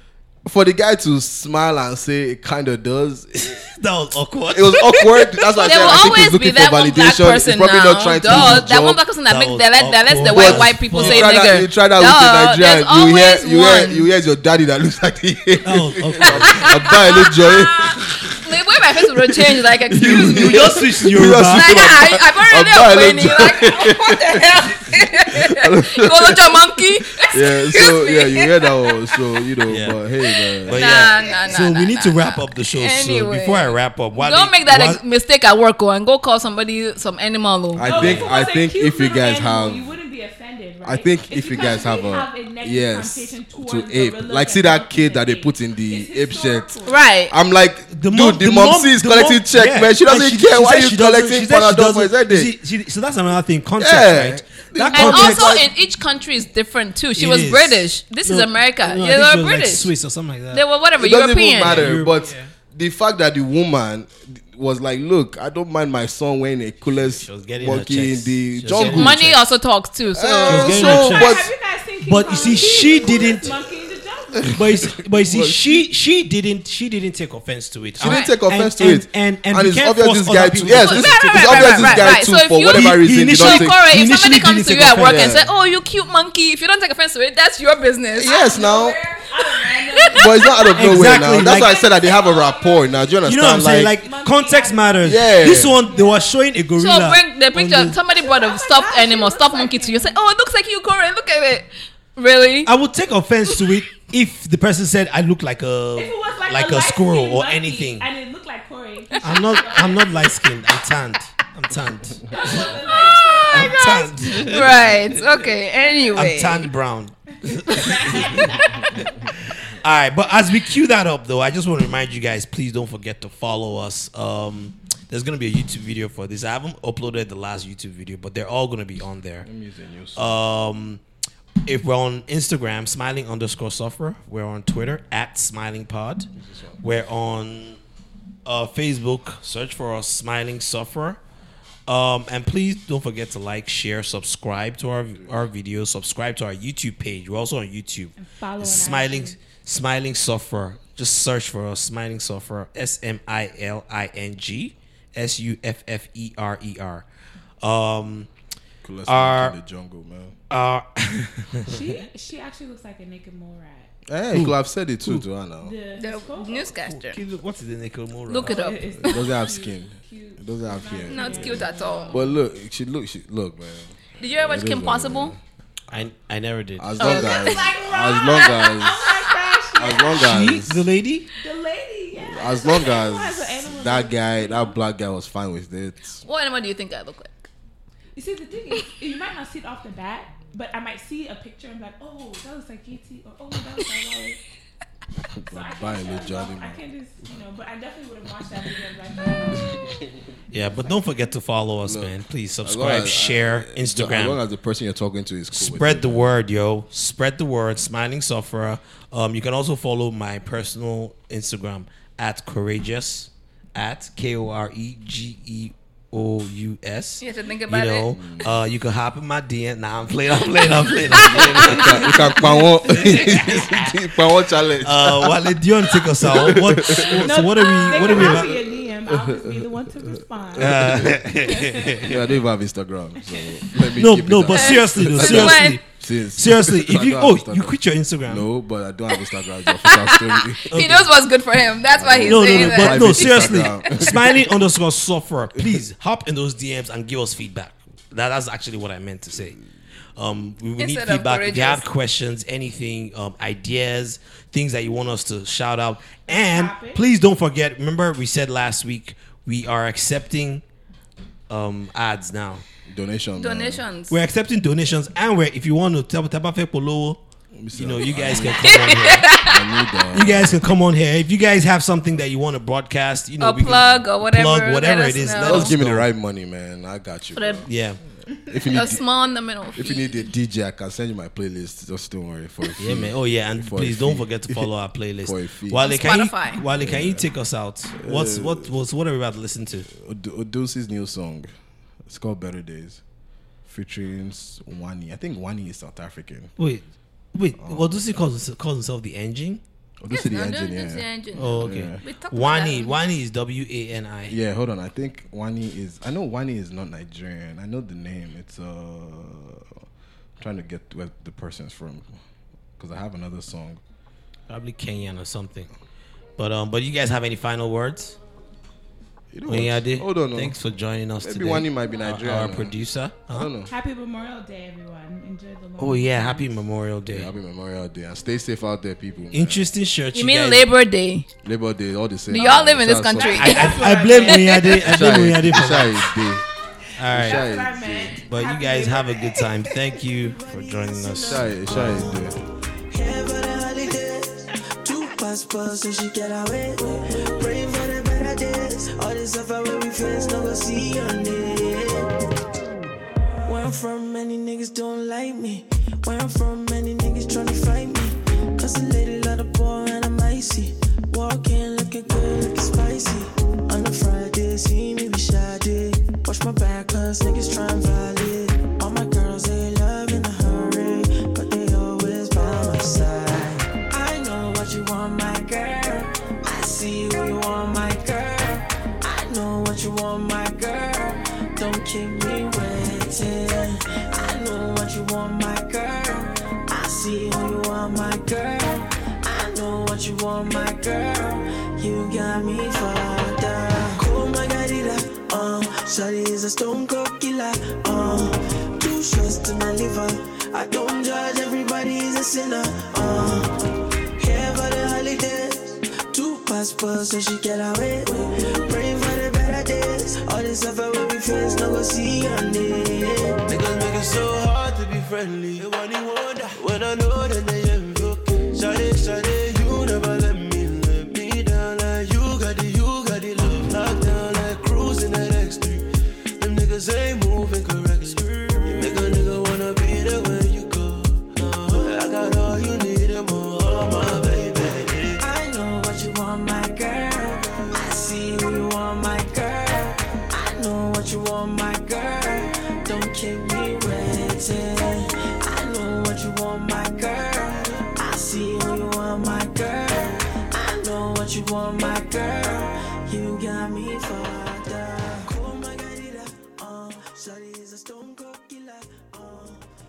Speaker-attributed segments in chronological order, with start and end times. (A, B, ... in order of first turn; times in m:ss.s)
0:00.5-0:03.6 A
0:03.4-0:04.8 B
0:04.5-0:09.0 A
0:05.0-0:14.0 C
0:08.3-0:08.7 B
0:09.2-0:11.5 B
0:10.2-0:18.4 A
0:15.6-0:16.7 B
0:16.4-0:20.7 C
0:19.0-0:30.9 A
0:20.1-0:21.9 B
0:21.5-0:29.2 C
0:29.7-0:30.0 B
0:30.6-0:35.0 B
0:30.7-0:37.9 C
0:31.0-0:31.5 D
0:37.8-0:39.9 A
0:37.8-0:47.0 D
0:37.8-0:38.4 B
0:40.8-0:46.8 A
0:46.8-0:47.3 C
0:47.3-0:52.6 A
0:47.9-0:55.6 B
0:53.8-0:55.7 A
0:54.9-0:59.9 C
0:57.2-1:00.6 B
1:00.5-1:01.9 C
1:01.0-1:09.2 A
1:01.6-1:02.5 B
1:06.9-1:09.4 B
1:08.8-1:11.1 C
1:10.1-1:11.5 A
1:10.5-1:11.5 B
1:10.8-1:14.9 D
1:12.0-1:13.6 B
1:14.5-1:15.8 A
1:14.5-1:25.4 B
1:18.0-1:23.8 A
1:18.0-1:18.3 C
1:20.7-1:28.4 C
1:24.9-1:25.5 A
1:28.2-1:29.0 A
1:28.3-1:33.3 D
1:29.4-1:30.7 C
1:30.1-1:34.0 A
1:30.8-1:31.7 B
1:33.2-1:38.0 B
1:33.9-1:36.4 D
1:35.0-1:35.8 A
1:36.8-1:42.7 C
1:38.0-1:40.2 D
1:42.7-1:48.1 B
1:46.0-1:50.4 D
1:49.2-1:55.1 B
1:52.3-1:54.9 D
1:54.4-1:56.7 C
1:56.1-1:59.1 B
1:57.3-1:58.8 D
1:59.8-2:09.5 B
2:09.4-2:10.4 A
2:10.2-2:11.0 B
2:11.6-2:16.3 B
2:16.4-2:16.8 A
2:16.8-2:17.8 B
2:18.4-2:21.2 B
2:21.9-2:37.1 B
2:25.2-2:25.4 A
2:28.2-2:29.4 D
2:37.6-2:38.3 B
2:38.8-2:40.4 A
2:39.1-2:39.6 B
2:40.5-2:42.0 B
2:41.7-2:43.9 D
2:44.1-2:45.7 A
2:44.3-2:45.2 B
2:45.6-2:46.8 D
2:46.0-2:47.2 C
2:46.8-2:48.7 B
2:48.3-2:48.8 C
2:48.4-2:52.4 D
2:49.0-2:51.5 A
2:51.1-2:52.2 C
2:52.1-2:55.4 A
2:54.2-2:55.4 C
2:55.9-2:57.1 B
2:56.8-2:59.2 A
2:57.0-2:57.7 C
2:57.0-3:00.3 D
2:59.8-3:00.9 A
3:00.2-3:01.3 B
3:01.4-3:04.8 D
3:02.2-3:06.2 A
3:06.2-3:07.3 C
3:08.2-3:14.4 D
3:15.4-3:16.8 A
3:15.5-3:20.0 D
3:20.5-3:24.4 B
3:21.8-3:26.3 A
3:25.5-3:42.1 B
3:37.2-3:38.5 C
3:38.2-3:38.5 A
3:41.2-3:41.8 C
3:41.2-3:47.5 A
3:42.1-3:43.6 D
3:44.8-3:48.6 B
3:47.1-3:52.1 D
3:48.0-3:49.8 A
3:50.5-3:51.3 A
3:50.6-3:52.2 B
3:52.0-4:00.9 A
3:54.0-3:55.8 B
3:54.5-3:55.8 C
3:56.4-3:58.5 B
3:59.7-4:03.6 C
4:00.7-4:01.1 B
4:01.9-4:04.5 A
4:02.2-4:09.6 B
4:05.6-4:05.8 A
4:10.2-4:20.6 B
4:10.8-4:11.8 C
4:16.3-4:17.0 D
4:21.5-4:22.6 B
4:22.9-4:23.8 A
4:23.4-4:24.2 C
4:24.1-4:27.2 B
4:27.5-4:30.6 A
4:27.7-4:29.3 B
4:28.6-4:29.6 C
4:30.1-4:36.1 B
4:33.4-4:35.8 C
4:35.4-4:37.7 A
4:37.3-4:37.6 C
4:37.6-4:38.0 B
4:38.5-4:39.0 A
4:38.6-4:40.3 C
4:39.8-4:44.7 A
4:42.8-4:49.9 B
4:45.2-4:45.8 A
4:45.8-4:46.6 C
4:46.8-4:47.2 A
4:48.0-4:48.7 A
4:49.9-4:51.5 A
4:52.1-4:53.0 A
4:53.6-4:56.5 A
4:56.6-4:59.6 B
4:57.6-4:58.0 A
5:00.0-5:02.0 A
5:00.1-5:03.0 C
5:01.4-5:04.4 B
5:04.3-5:09.8 A
5:10.4-5:12.1 A
5:12.8-5:13.8 A
5:14.5-5:15.7 B
5:16.4-5:18.2 B
5:19.3-5:20.6 A
5:19.5-5:23.5 B
5:21.2-5:23.7 A
5:23.7-5:26.4 D
5:25.8-5:27.3 B
5:27.1-5:29.7 A
5:29.3-5:30.7 B
5:30.2-5:31.3 C
5:31.4-5:33.5 A
5:32.3-5:34.6 C
5:32.3-5:35.1 D
5:33.3-5:36.0 B
5:34.7-5:36.4 A
5:37.0-5:37.5 B
5:37.1-5:39.7 D
5:37.2-5:38.2 A
5:38.2-5:42.1 B
5:40.2-5:42.4 E
5:41.2-5:42.4 A
5:42.9-5:52.1 E
5:53.5-6:43.6 E
6:44.2-6:53.4 E
6:53.4-7:05.8 F
7:06.4-7:15.3 F
7:15.2-7:39.6 E